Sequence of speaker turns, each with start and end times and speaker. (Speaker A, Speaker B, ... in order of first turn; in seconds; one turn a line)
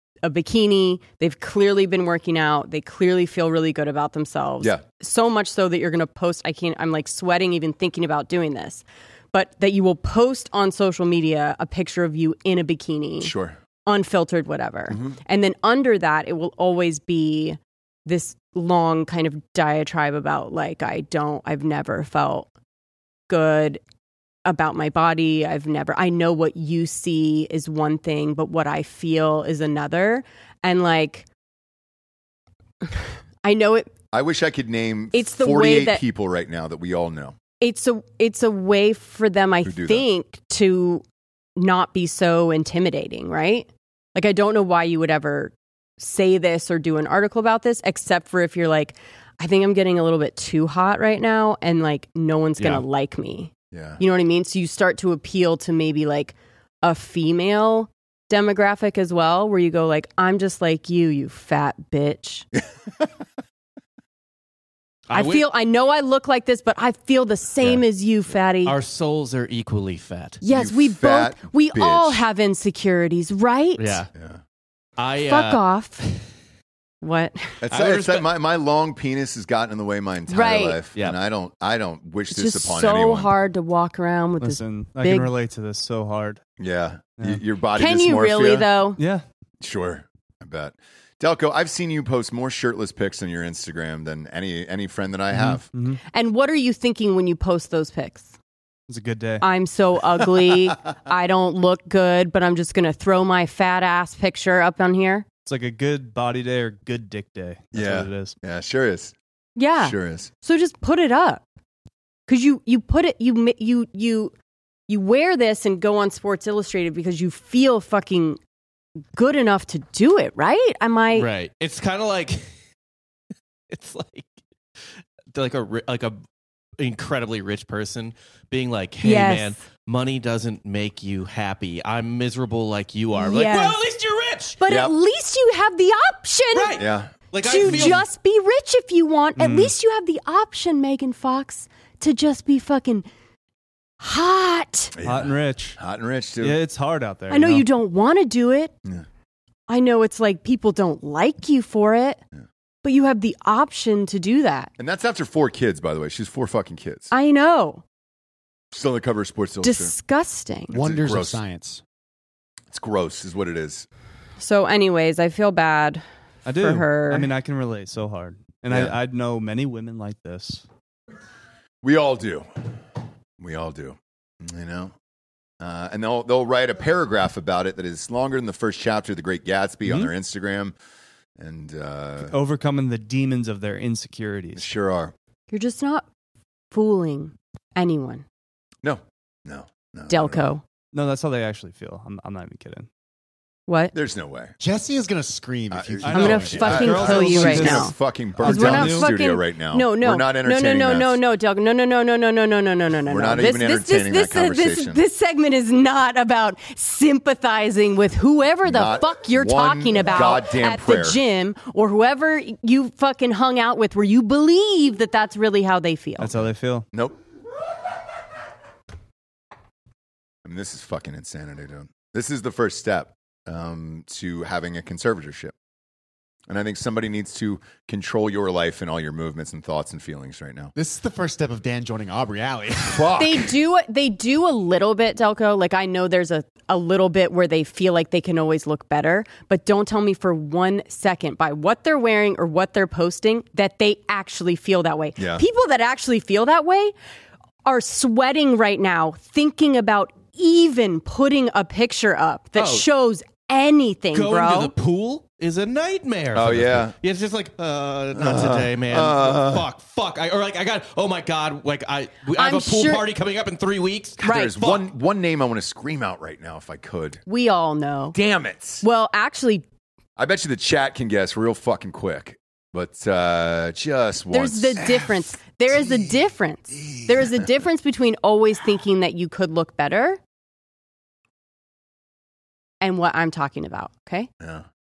Speaker A: 0.2-13.3
Speaker B: 13.2-13.6
Speaker A: 13.8-22.5
Speaker B: 14.9-15.2
Speaker A: 23.3-23.8
Speaker A: 24.4-31.3
Speaker A: 32.8-33.9
Speaker B: 34.1-37.4
Speaker A: 35.1-36.0
Speaker A: 37.6-41.0
Speaker B: 39.6-40.0
Speaker A: 41.5-62.5
Speaker C: 52.6-52.8
Speaker B: 53.7-54.0
Speaker C: 65.1-65.5
Speaker A: 65.1-68.8
Speaker C: 68.6-70.4
Speaker A: 70.4-74.0
Speaker B: 70.5-72.2
Speaker C: 73.8-74.1
Speaker B: 74.1-74.4
Speaker C: 75.0-75.6
Speaker A: 75.2-76.0
Speaker A: 77.0-77.6
Speaker B: 77.6-83.3
Speaker C: 77.7-78.3
Speaker A: 80.3-80.8
Speaker A: 82.3-85.3
Speaker D: 84.4-86.4
Speaker B: 86.6-88.7
Speaker A: 87.7-89.0
Speaker D: 89.0-89.2
Speaker B: 89.6-95.7
Speaker D: 95.3-96.0
Speaker A: 96.1-98.3
Speaker D: 98.9-99.5
Speaker A: 99.4-105.2
Speaker D: 105.4-108.3
Speaker B: 107.7-109.1
Speaker A: 109.5-111.4
Speaker B: 109.8-110.3
Speaker A: 112.3-114.3
Speaker A: 114.9-118.4
Speaker A: 119.1-121.3
Speaker C: 121.1-122.5
Speaker C: 123.7-124.3
Speaker C: 124.8-126.2
Speaker C: 126.8-134.6
Speaker A: 129.0-129.6
Speaker A: 133.1-133.8
Speaker A: 134.6-136.8
Speaker B: 134.7-134.9
Speaker C: 136.5-138.1
Speaker B: 136.8-137.1
Speaker A: 137.4-143.1
Speaker B: 137.7-138.0
Speaker D: 139.4-139.7
Speaker A: 144.0-144.9
Speaker B: 144.9-146.6
Speaker D: 145.0-145.8
Speaker D: 146.4-147.7
Speaker A: 147.3-148.7
Speaker A: 149.7-152.2
Speaker A: 152.8-154.7
Speaker B: 154.8-157.1
Speaker A: 157.1-157.8
Speaker B: 158.7-159.9
Speaker A: 159.6-160.7
Speaker E: 160.7-161.8
Speaker B: 160.7-161.4
Speaker B: 162.7-163.8
Speaker A: 164.4-167.3
Speaker D: 166.4-170.6
Speaker B: 168.7-168.9
Speaker B: 171.8-172.5
Speaker B: 173.4-174.9
Speaker B: 175.6-180.7
Speaker D: 179.8-180.1
Speaker B: 181.4-182.3
Speaker D: 182.3-184.7
Speaker B: 184.5-185.1
Speaker A: 185.5-186.1
Speaker A: 186.7-188.2
Speaker B: 188.8-190.5
Speaker A: 190.1-190.6
Speaker D: 190.9-192.9
Speaker A: 193.7-193.9
Speaker B: 193.9-194.5
Speaker E: 194.6-197.7
Speaker B: 195.7-201.2
Speaker D: 196.0-199.1
Speaker A: 196.1-216.4
Speaker B: 203.1-205.0
Speaker B: 208.6-211.2
Speaker D: 216.2-216.9
Speaker B: 220.4-225.5
Speaker B: 226.5-230.7
Speaker E: 230.7-233.4
Speaker B: 232.9-233.4
Speaker A: 233.2-246.9
Speaker B: 245.2-245.4
Speaker A: 247.6-254.7
Speaker C: 252.5-252.8
Speaker C: 254.1-264.8
Speaker B: 256.3-256.9
Speaker B: 258.1-259.6
Speaker A: 262.4-263.1
Speaker B: 264.2-267.2
Speaker A: 264.2-264.5
Speaker A: 267.3-268.1
Speaker B: 268.1-268.8
Speaker A: 268.8-269.6
Speaker B: 270.2-276.2
Speaker A: 274.3-280.2
Speaker B: 276.7-277.5
Speaker A: 282.8-284.3